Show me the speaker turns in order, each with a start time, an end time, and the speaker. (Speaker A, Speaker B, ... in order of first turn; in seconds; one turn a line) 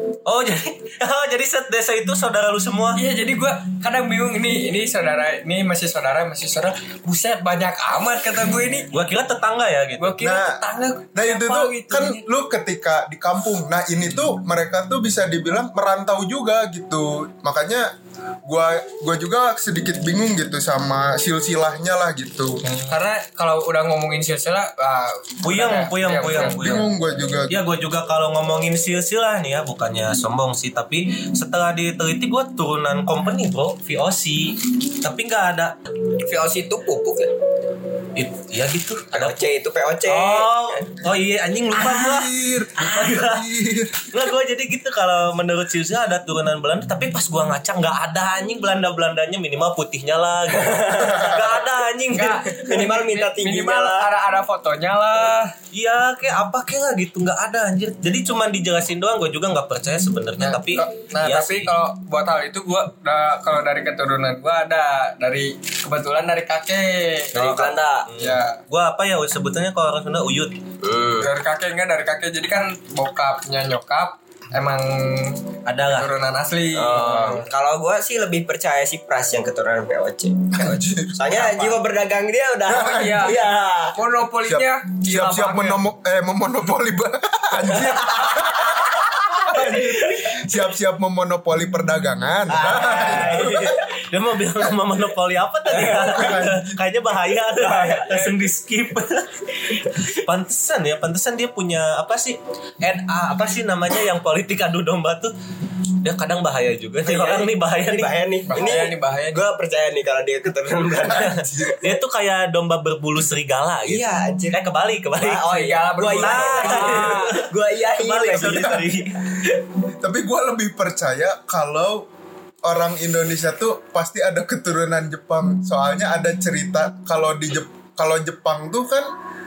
Speaker A: 0.2-3.0
Speaker B: 2.9-8.9
Speaker A: 8.9-10.2
Speaker B: 10.0-12.2
Speaker C: 10.2-10.6
Speaker C: 11.1-17.9
Speaker C: 18.4-22.6
Speaker B: 22.7-26.7
Speaker A: 25.4-26.9
Speaker C: 26.5-27.6
Speaker A: 27.5-35.7
Speaker D: 36.2-37.3
Speaker A: 38.1-39.5
Speaker D: 39.1-40.8
Speaker A: 40.0-43.5
Speaker C: 41.7-44.1
Speaker A: 44.1-52.9
Speaker D: 50.5-51.7
Speaker B: 52.1-55.5
Speaker D: 52.5-54.1
Speaker A: 55.7-61.7
Speaker B: 60.4-67.6
Speaker D: 67.3-68.1
Speaker A: 67.4-70.5
Speaker B: 68.2-68.6
Speaker D: 70.8-71.3
Speaker B: 71.2-77.5
Speaker A: 75.7-76.1
Speaker D: 76.7-84.0
Speaker C: 80.5-81.8
Speaker C: 82.7-83.4
Speaker B: 82.9-83.4
Speaker B: 83.9-85.8
Speaker C: 84.5-93.8
Speaker D: 87.7-90.3
Speaker D: 92.5-93.8
Speaker A: 92.8-105.3
Speaker C: 95.7-96.7
Speaker B: 96.0-96.3
Speaker B: 97.6-98.4
Speaker A: 106.0-108.2
Speaker D: 107.0-111.7
Speaker B: 108.5-109.4
Speaker A: 111.1-119.2
Speaker C: 111.1-111.8
Speaker D: 113.8-114.6
Speaker D: 115.1-118.8
Speaker B: 115.4-117.3
Speaker C: 120.0-122.0
Speaker C: 122.6-129.1